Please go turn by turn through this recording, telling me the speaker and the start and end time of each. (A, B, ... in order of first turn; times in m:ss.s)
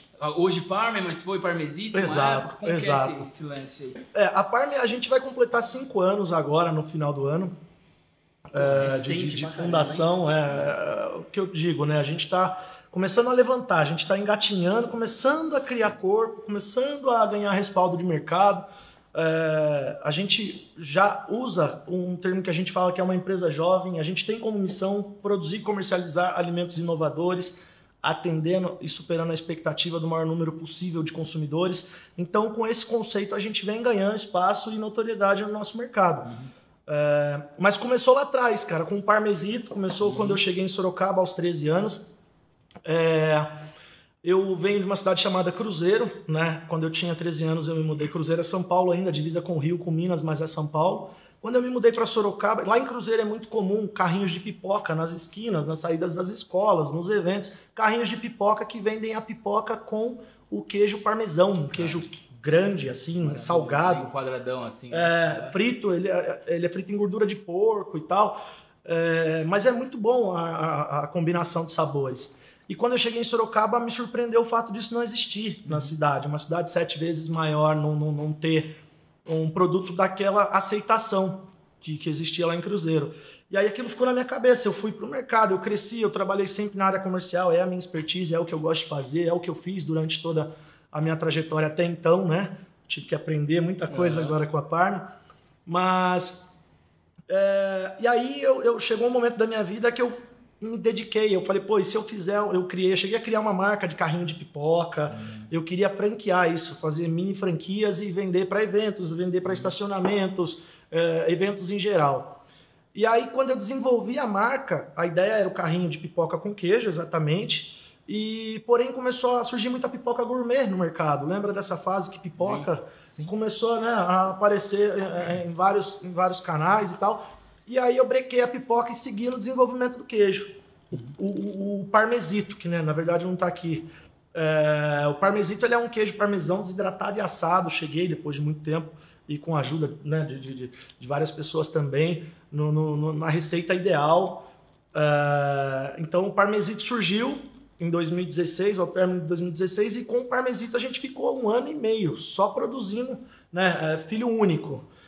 0:00.2-0:04.0 A
0:01.9-0:03.3 B
0:04.1-0:07.5 B
0:08.5-0:36.3 B
0:08.6-0:10.2 A
0:36.9-0:42.1 B
0:40.1-0:40.4 A
0:42.8-0:43.7 B
0:44.2-1:04.1 B
1:03.2-1:05.6 A
1:04.9-1:36.5 B
1:33.9-1:34.4 A
1:37.3-1:52.4 B
1:45.1-1:45.5 A
1:52.9-2:34.9 B
2:02.4-2:02.7 A